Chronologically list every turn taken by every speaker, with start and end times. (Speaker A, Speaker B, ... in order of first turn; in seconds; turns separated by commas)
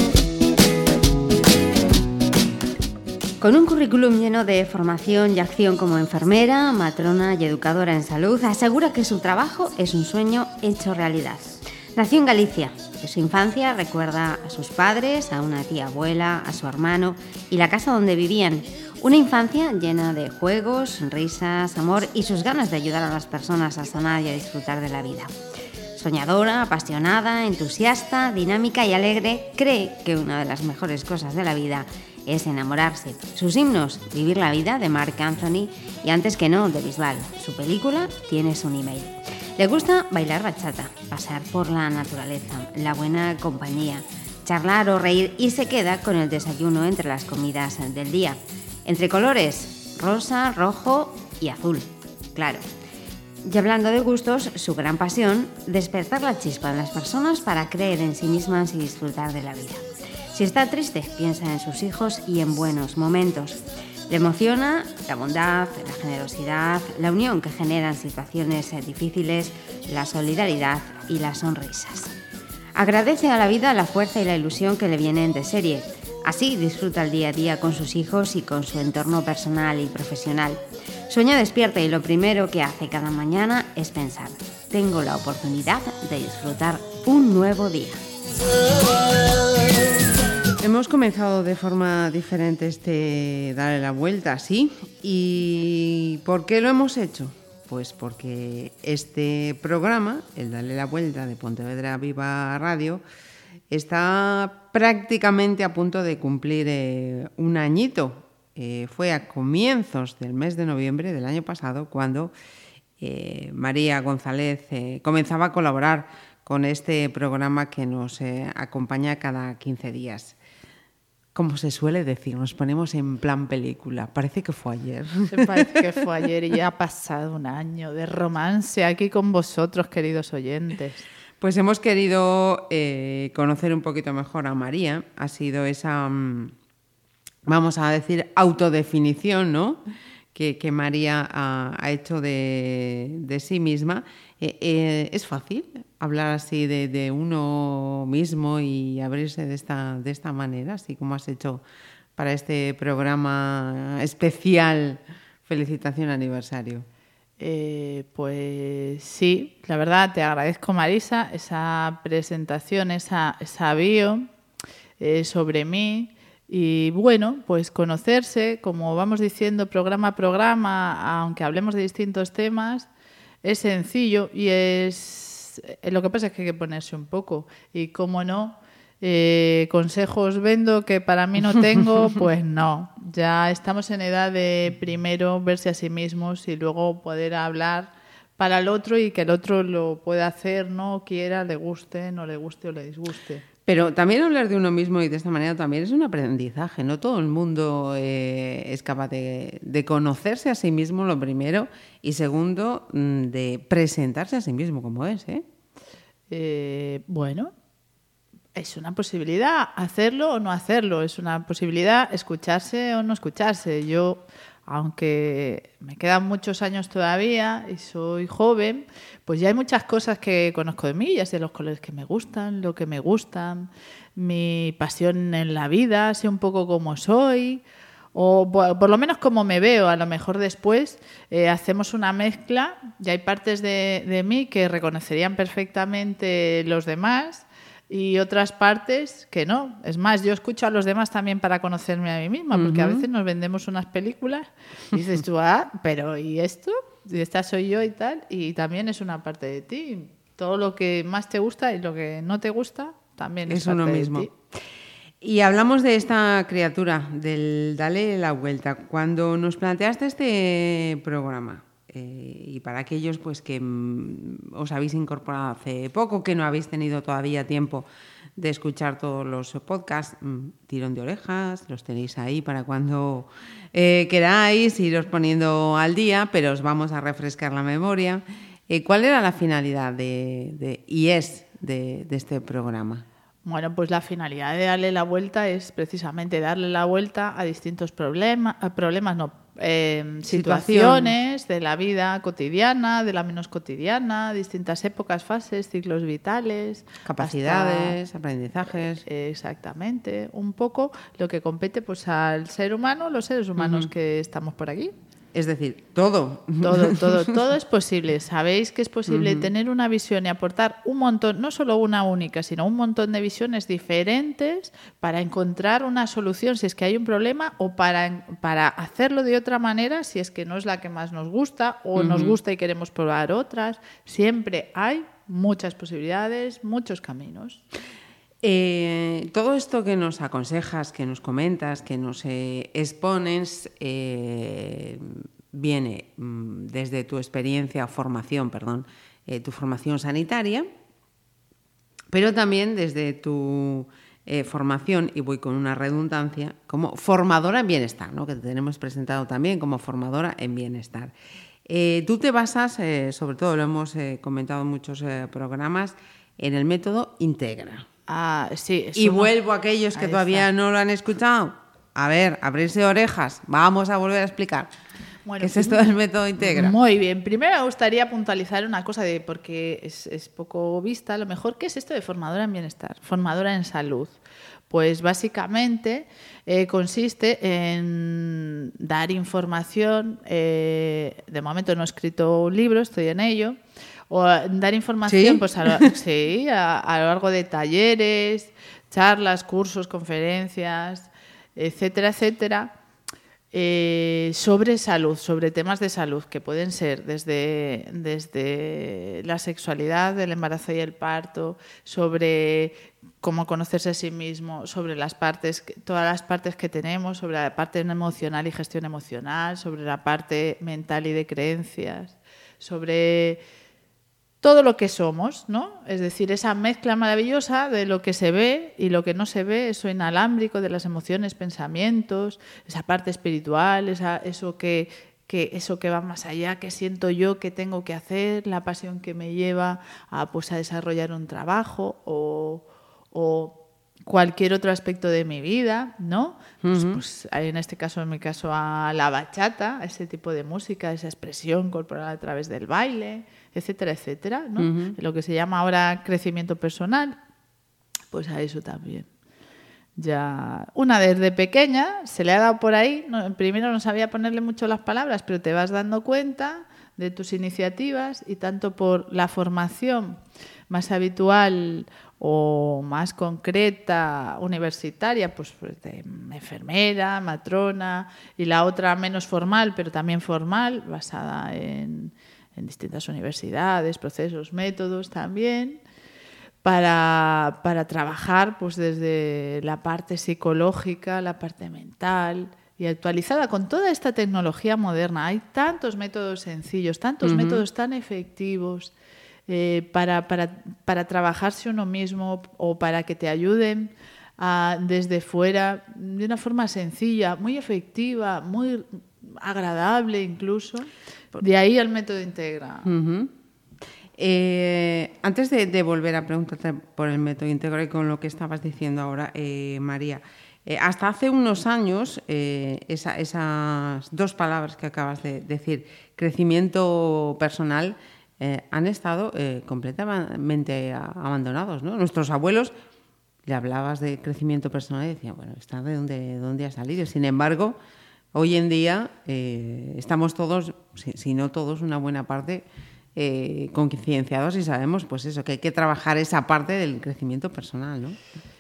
Speaker A: 3.4-25.3, Speaker A: 26.0-52.6, Speaker A: 53.5-59.8, Speaker A: 60.3-72.1, Speaker A: 72.8-88.0, Speaker B: 90.6-103.0, Speaker B: 103.7-112.3, Speaker B: 113.0-120.4, Speaker B: 121.3-125.8, Speaker C: 125.3-131.0, Speaker B: 131.4-136.5, Speaker B: 137.4-139.8, Speaker B: 140.3-151.6, Speaker B: 152.2-156.9, Speaker C: 157.4-164.3, Speaker C: 165.0-172.9, Speaker C: 173.4-193.4, Speaker B: 193.7-205.4, Speaker C: 206.3-207.5, Speaker C: 208.6-227.6, Speaker C: 228.1-254.3, Speaker B: 242.5-243.1, Speaker B: 253.5-254.3, Speaker B: 255.2-283.1, Speaker C: 283.4-298.0, Speaker B: 290.3-291.1, Speaker B: 297.1-299.0, Speaker C: 299.0-304.9, Speaker B: 303.6-303.9, Speaker B: 305.3-307.3, Speaker C: 306.6-327.6, Speaker B: 309.1-309.5, Speaker B: 321.9-322.4, Speaker B: 328.4-340.7, Speaker B: 342.1-351.1, Speaker B: 351.7-357.9, Speaker C: 358.1-359.3, Speaker B: 358.9-364.7, Speaker C: 359.9-360.5, Speaker C: 365.2-374.2, Speaker B: 365.4-366.8, Speaker C: 374.7-383.6, Speaker C: 384.1-392.7, Speaker B: 385.1-385.9, Speaker C: 393.5-413.4, Speaker C: 414.4-447.2, Speaker B: 436.6-437.0, Speaker B: 444.6-445.0, Speaker C: 448.1-449.1, Speaker C: 450.0-475.8, Speaker C: 476.6-488.9, Speaker B: 487.2-487.6, Speaker C: 489.5-502.9, Speaker B: 502.9-503.3, Speaker B: 504.2-522.7, Speaker B: 523.5-527.8, Speaker B: 528.3-538.2